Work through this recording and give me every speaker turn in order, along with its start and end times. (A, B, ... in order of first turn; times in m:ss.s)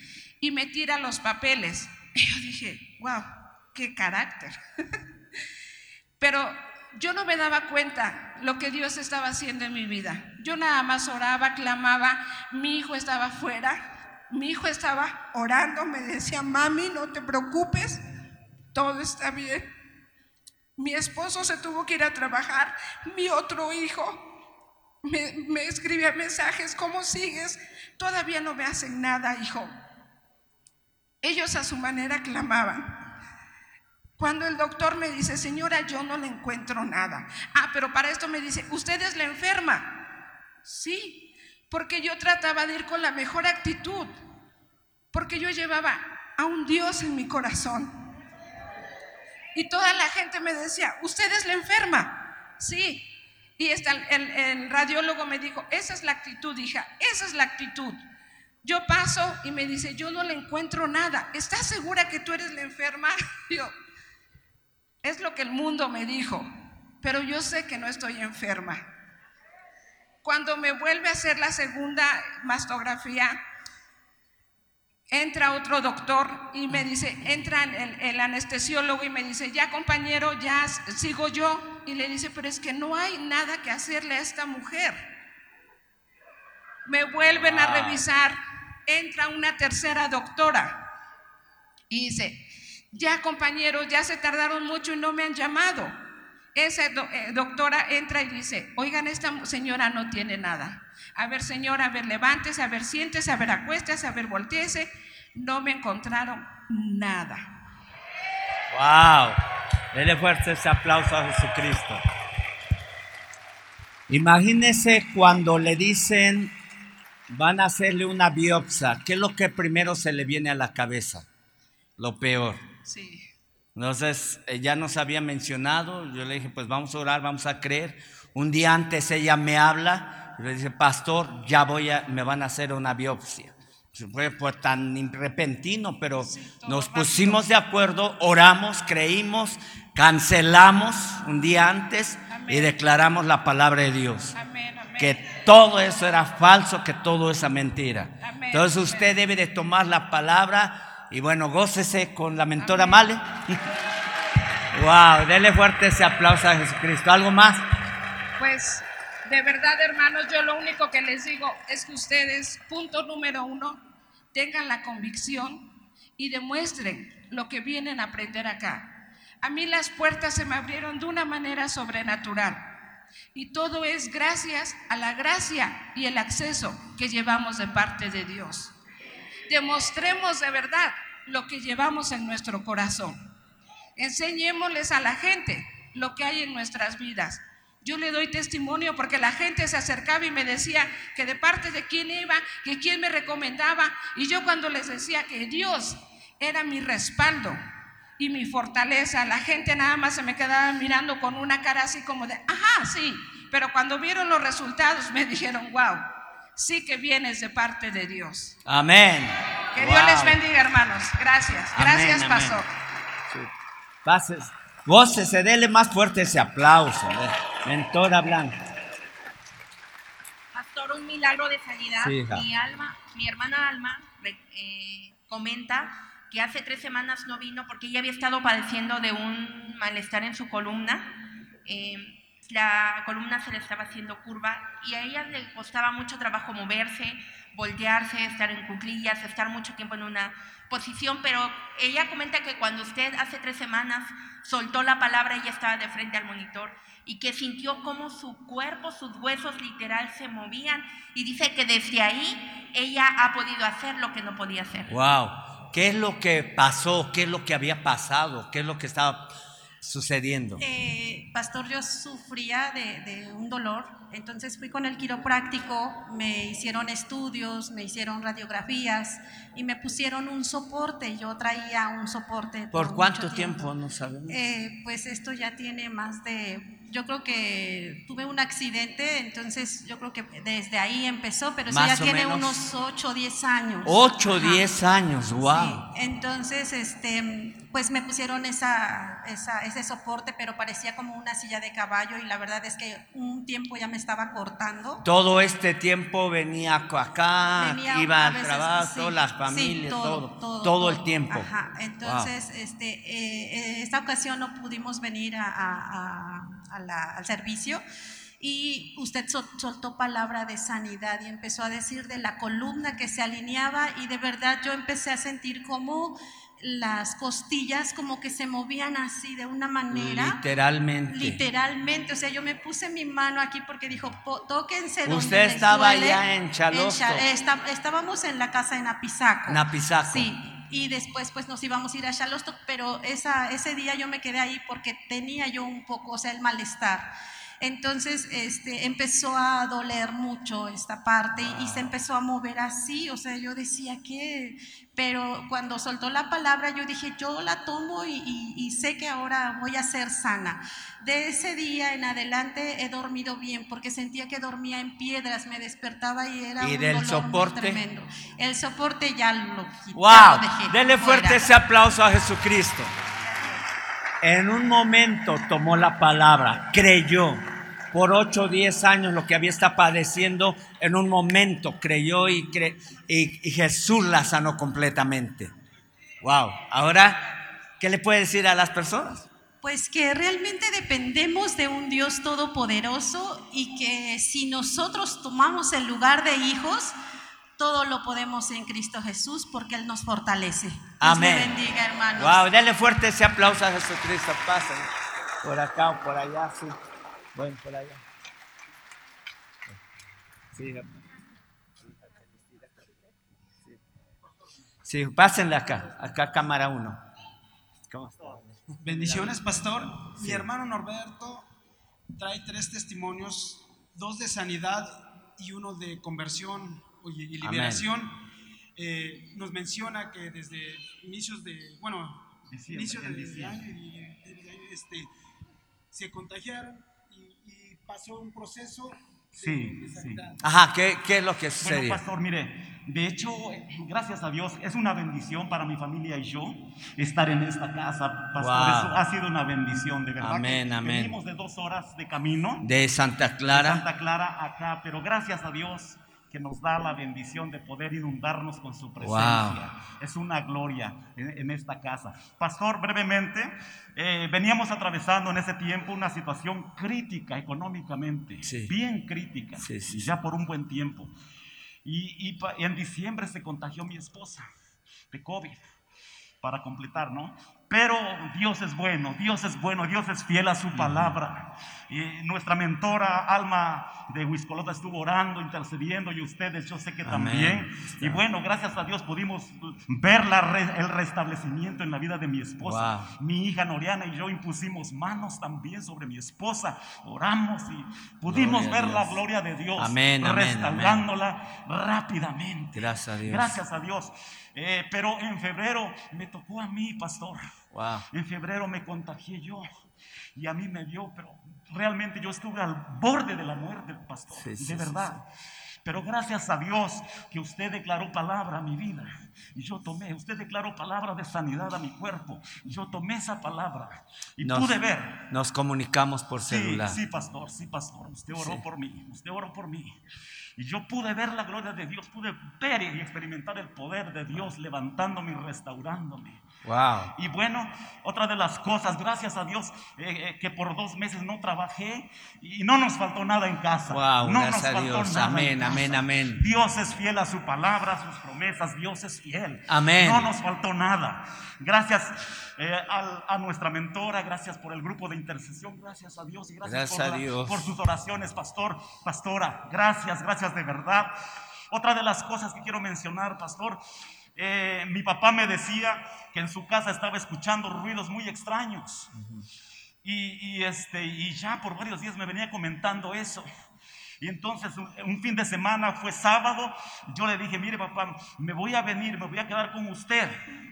0:00.4-0:04.5 A
0:06.2-0:13.8 A
0:14.3-0:18.0 A
0:18.7-0:19.7 A
0:20.8-0:24.2 A
0:25.0-0:29.7 A
0:31.2-0:33.0 A
0:34.2-0:39.9 A
0:40.6-0:44.1 A
0:45.1-0:47.9 A
0:49.5-0:53.1 A
0:53.6-0:58.0 A
0:58.6-1:03.7 A
1:05.0-1:06.5 A
1:07.0-1:08.8 A
1:10.2-1:13.4 A
1:15.1-1:25.0 A
1:26.8-1:30.8 A
1:27.4-1:28.0 B
1:31.9-1:35.9 A
1:36.5-1:47.4 A
1:48.7-1:49.4 B
1:49.9-1:52.0 B
1:54.1-1:56.5 B
1:57.3-2:01.3 B
2:02.0-2:02.6 B
2:02.8-2:03.2 A
2:03.7-2:24.3 B
2:16.2-2:17.5 A
2:22.3-2:22.8 A
2:24.3-2:25.2 A
2:25.0-2:33.6 B
2:28.2-2:29.1 A
2:32.6-2:33.1 A
2:34.7-2:37.6 B
2:38.4-2:43.8 A
2:44.3-2:48.9 A
2:49.4-2:52.7 A
2:53.3-2:58.7 A
2:59.5-3:03.2 A
3:04.0-3:17.6 A
3:18.2-3:26.0 A
3:26.6-3:28.6 A
3:28.6-3:30.4 B
3:29.8-3:32.7 A
3:31.7-3:32.6 B
3:34.0-3:38.6 B
3:40.5-3:51.1 C
3:42.0-3:42.4 B
3:51.6-4:14.9 C
4:14.9-4:19.3 B
4:19.8-4:20.6 B
4:20.6-4:33.7 D
4:32.7-4:34.4 B
4:34.3-4:44.7 D
4:41.7-4:42.6 B
4:43.8-4:45.8 B
4:45.4-4:55.0 D
4:55.0-5:01.5 B
4:57.5-5:07.8 D
5:02.0-5:02.3 B
5:08.4-5:20.4 D
5:19.9-5:21.4 B
5:21.0-6:01.5 D
5:25.0-5:27.2 B
5:29.5-5:30.3 B
5:41.5-5:41.8 B
5:56.6-5:57.8 B
5:59.9-6:02.9 B
6:04.2-6:15.5 B
6:16.2-6:17.2 B
6:17.8-6:19.3 B
6:19.6-6:26.9 D
6:27.6-6:32.5 D
6:31.0-6:31.6 B
6:32.2-6:34.9 B
6:35.4-6:36.8 B
6:37.3-6:38.0 B
6:40.5-6:40.9 B
6:44.8-6:47.0 B
6:47.9-6:50.4 B
6:48.8-6:51.4 E
6:52.2-6:58.1 E
6:57.4-6:57.9 B
6:58.8-7:05.1 E
7:02.5-7:03.6 F
7:05.9-7:10.4 E
7:09.4-7:10.2 F
7:10.4-7:12.0 B
7:11.6-7:22.7 F
7:18.4-7:19.0 B
7:20.2-7:21.1 B
7:22.6-7:23.8 B
7:23.5-7:41.1 F
7:29.0-7:29.6 B
7:38.4-7:38.7 B
7:39.6-7:40.1 B
7:41.8-7:44.4 F
7:45.1-7:45.6 F
7:46.4-8:17.4 F
7:50.7-7:51.2 B
7:57.0-7:58.2 B
8:02.6-8:03.1 B
8:08.3-8:09.2 B
8:09.8-8:11.0 B
8:12.7-8:13.6 B
8:17.7-8:18.0 B
8:18.1-8:19.7 F
8:20.4-8:25.2 F
8:24.3-8:25.2 B
8:25.8-8:35.2 F
8:34.4-8:34.8 B
8:35.3-8:37.0 B
8:36.4-8:40.0 F
8:38.3-8:38.6 B
8:40.6-8:46.4 F
8:46.6-8:47.1 B
8:47.1-9:11.1 F
8:53.9-8:56.4 B
8:59.7-9:00.3 B
9:06.6-9:07.7 B
9:11.7-9:13.8 F
9:14.4-9:19.1 F
9:19.1-9:19.4 B
9:20.0-9:23.4 F
9:24.2-9:30.4 F